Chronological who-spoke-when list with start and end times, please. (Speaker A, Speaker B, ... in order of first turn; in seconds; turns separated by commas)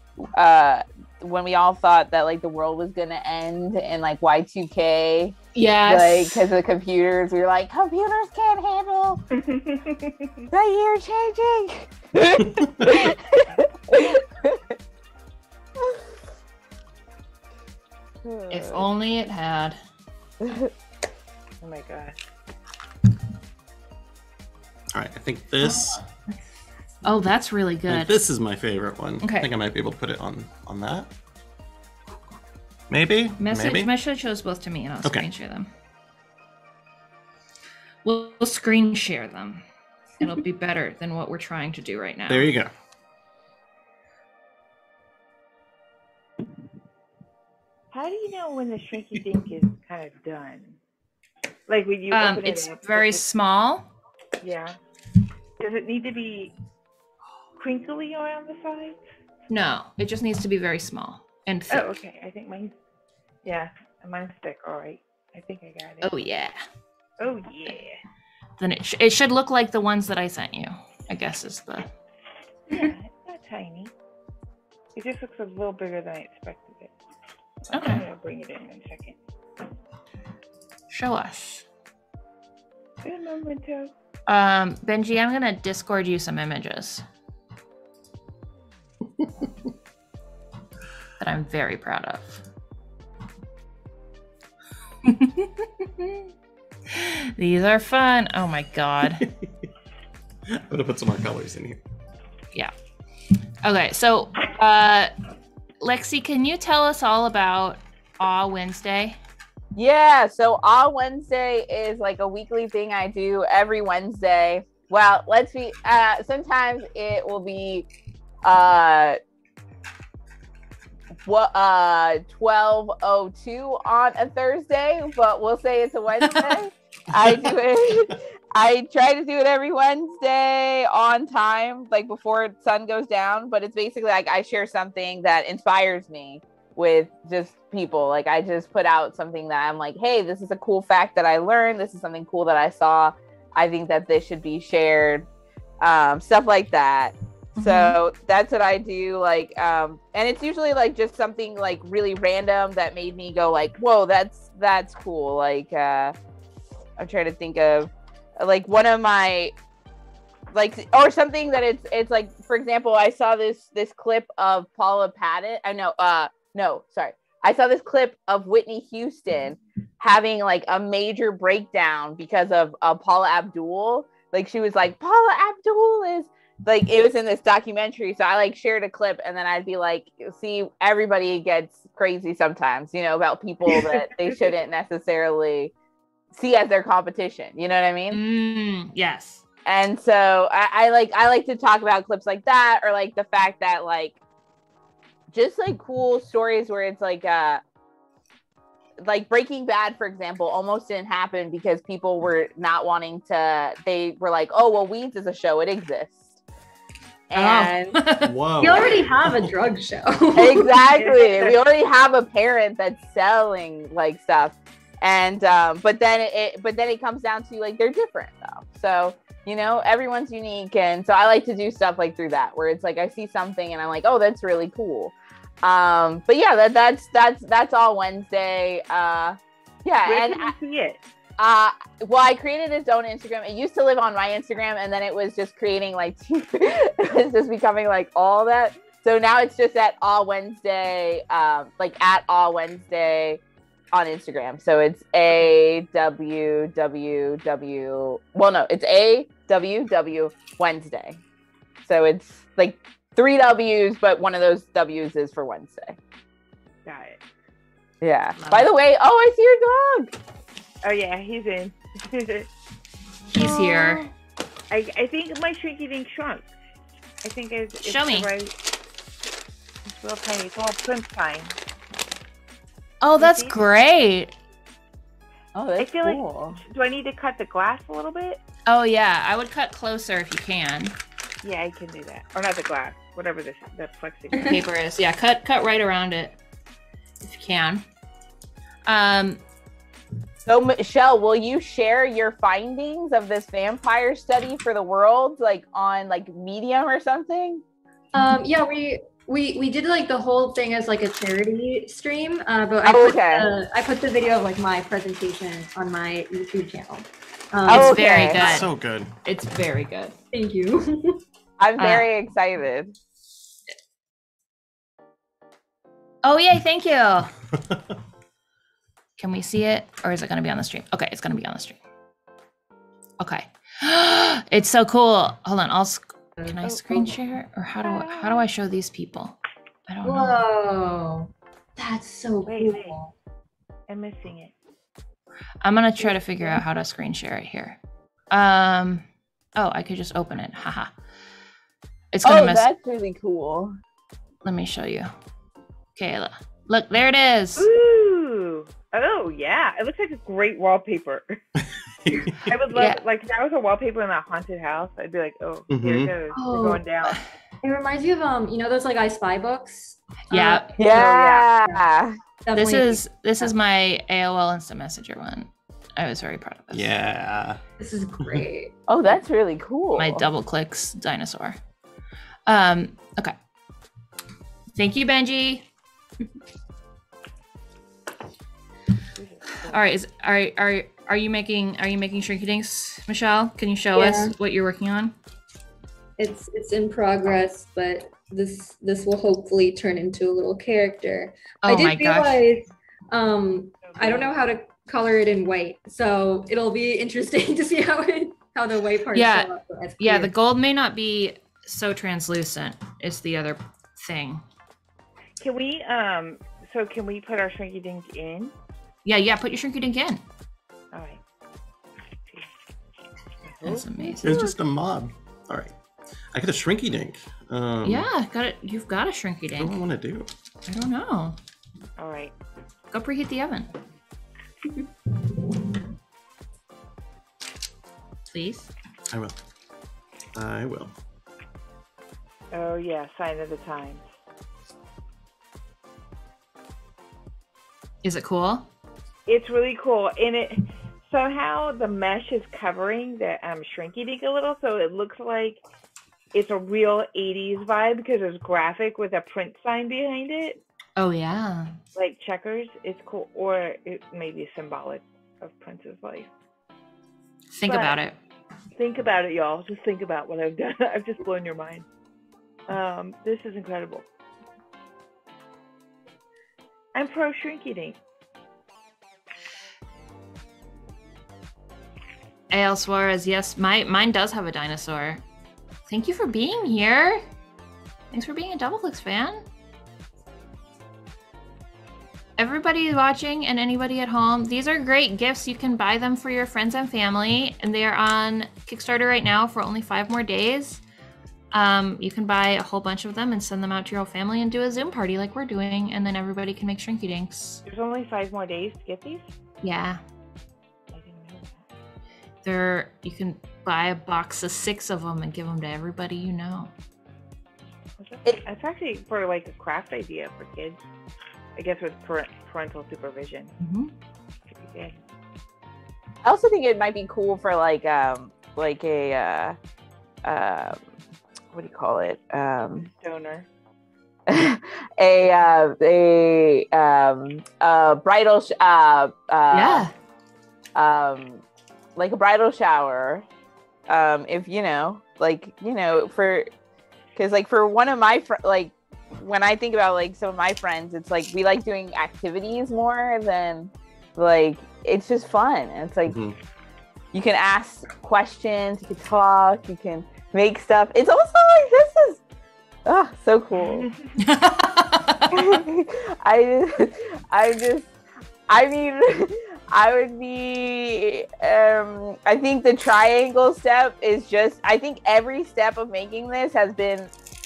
Speaker A: 0.3-9.2, Speaker B: 5.5-6.4, Speaker C: 9.3-10.5, Speaker A: 10.5-14.6, Speaker D: 12.5-12.9, Speaker C: 18.2-18.9, Speaker B: 18.5-19.8, Speaker A: 20.4-20.7, Speaker C: 21.6-22.2, Speaker D: 24.9-26.0, Speaker B: 25.6-26.0, Speaker B: 27.0-28.2, Speaker D: 27.9-31.1, Speaker B: 29.2-29.5, Speaker D: 32.9-33.9, Speaker B: 33.4-35.7, Speaker B: 38.0-39.6, Speaker B: 40.2-42.5, Speaker D: 42.3-42.7, Speaker C: 47.9-50.8, Speaker C: 51.7-53.2, Speaker B: 52.1-53.9, Speaker C: 54.4-54.8, Speaker C: 55.6-56.5, Speaker C: 57.6-59.0, Speaker B: 59.5-61.9, Speaker C: 61.7-62.7, Speaker C: 63.4-66.1, Speaker B: 66.0-66.5, Speaker C: 67.2-68.0, Speaker B: 68.6-71.9, Speaker C: 72.7-73.9, Speaker C: 75.0-76.9, Speaker C: 77.7-79.2, Speaker B: 77.7-78.0, Speaker B: 80.9-81.7, Speaker C: 83.0-83.9, Speaker B: 84.3-87.0, Speaker B: 91.2-92.4, Speaker B: 95.0-96.3, Speaker B: 96.9-99.2, Speaker D: 99.2-99.5, Speaker D: 100.5-101.8, Speaker B: 103.6-105.1, Speaker B: 105.8-109.2, Speaker A: 109.8-117.9, Speaker A: 118.4-119.2, Speaker A: 121.2-145.3, Speaker A: 145.8-156.2, Speaker B: 147.6-148.0, Speaker A: 157.0-159.5, Speaker A: 160.5-185.7, Speaker A: 186.3-188.2, Speaker B: 188.1-189.4, Speaker A: 189.7-194.2, Speaker A: 195.3-197.6, Speaker A: 199.0-206.3, Speaker A: 207.3-207.9, Speaker B: 207.3-208.3, Speaker D: 208.2-209.5, Speaker E: 208.6-210.9, Speaker A: 210.3-230.6, Speaker C: 210.9-211.6, Speaker C: 230.1-231.0, Speaker A: 231.4-243.4, Speaker A: 243.9-251.2, Speaker A: 251.8-256.0, Speaker C: 256.9-257.2, Speaker A: 258.0-260.1, Speaker B: 258.4-258.7, Speaker C: 260.8-262.5, Speaker B: 263.3-264.1, Speaker A: 263.4-264.1, Speaker C: 264.7-266.5, Speaker C: 267.2-268.5, Speaker B: 267.8-268.3, Speaker C: 269.9-271.6, Speaker B: 273.0-274.3, Speaker C: 273.2-273.6, Speaker A: 275.6-276.6, Speaker C: 275.8-278.4, Speaker B: 278.7-280.9, Speaker C: 281.4-284.6, Speaker B: 284.4-286.4, Speaker B: 287.2-287.9, Speaker B: 288.9-289.4, Speaker A: 290.4-297.6, Speaker E: 298.1-308.4, Speaker A: 302.8-303.5, Speaker A: 307.7-308.6, Speaker B: 307.7-310.1, Speaker D: 308.4-309.1, Speaker E: 310.3-311.2, Speaker A: 311.6-312.9, Speaker B: 311.8-312.1, Speaker B: 316.2-317.3, Speaker B: 319.2-321.8, Speaker B: 323.2-330.4, Speaker C: 326.7-327.1, Speaker C: 327.8-328.5, Speaker E: 330.0-331.3, Speaker B: 331.8-332.8, Speaker C: 332.5-333.0, Speaker E: 332.6-333.1, Speaker C: 333.9-334.5, Speaker B: 335.6-337.8, Speaker B: 338.3-339.1, Speaker B: 339.6-340.9, Speaker B: 342.1-342.7, Speaker A: 342.2-343.8, Speaker B: 344.4-345.1, Speaker B: 345.9-347.7, Speaker C: 347.6-351.4, Speaker D: 352.1-352.4, Speaker C: 352.5-357.2, Speaker B: 352.7-353.0, Speaker D: 355.7-356.1, Speaker B: 356.4-357.2, Speaker E: 356.4-356.8, Speaker E: 357.6-361.1, Speaker B: 360.3-360.7, Speaker A: 360.8-362.2, Speaker C: 360.9-361.5, Speaker E: 362.5-363.5, Speaker B: 362.6-366.9, Speaker D: 366.7-367.6, Speaker E: 367.8-368.7, Speaker A: 368.9-370.3, Speaker B: 370.0-371.6, Speaker B: 372.5-373.4, Speaker B: 374.8-375.7, Speaker C: 379.2-379.8, Speaker B: 379.6-385.1, Speaker E: 383.9-384.3, Speaker E: 386.2-400.3, Speaker B: 391.6-392.4, Speaker C: 393.8-394.4, Speaker B: 399.1-404.4, Speaker C: 405.4-408.5, Speaker B: 409.1-410.2, Speaker C: 410.9-411.2, Speaker C: 413.5-414.2, Speaker B: 413.6-414.6, Speaker D: 414.2-415.7, Speaker D: 416.3-418.1, Speaker B: 417.8-419.8, Speaker D: 419.6-420.3, Speaker B: 420.7-421.4, Speaker C: 422.0-422.3, Speaker B: 422.9-423.7, Speaker B: 428.3-428.7, Speaker D: 430.4-430.9, Speaker C: 432.5-434.1, Speaker B: 438.0-438.7, Speaker C: 439.3-445.6, Speaker C: 446.3-450.6, Speaker B: 451.0-451.8, Speaker C: 451.9-456.3, Speaker B: 457.5-458.1, Speaker C: 457.6-458.0, Speaker C: 458.8-461.9, Speaker C: 462.7-464.1, Speaker C: 466.9-468.0, Speaker B: 472.5-475.2, Speaker B: 475.9-477.2, Speaker B: 478.1-479.4, Speaker B: 482.4-490.8, Speaker B: 491.5-497.6, Speaker C: 497.7-499.3, Speaker B: 499.6-500.0, Speaker C: 500.9-501.6, Speaker B: 502.4-506.7, Speaker C: 508.0-510.8, Speaker C: 511.6-513.5, Speaker B: 513.6-513.9, Speaker C: 514.5-515.0, Speaker A: 516.2-519.6, Speaker A: 520.2-520.8, Speaker A: 521.5-522.9, Speaker C: 523.0-523.5, Speaker A: 524.3-529.9, Speaker B: 529.5-529.9, Speaker A: 530.8-531.4, Speaker A: 532.0-533.3, Speaker A: 533.9-536.5, Speaker A: 537.2-546.2, Speaker D: 546.1-546.4, Speaker A: 547.1-552.2, Speaker A: 552.9-553.9, Speaker C: 553.6-554.0, Speaker B: 554.2-555.4, Speaker A: 555.3-557.9, Speaker A: 558.5-567.1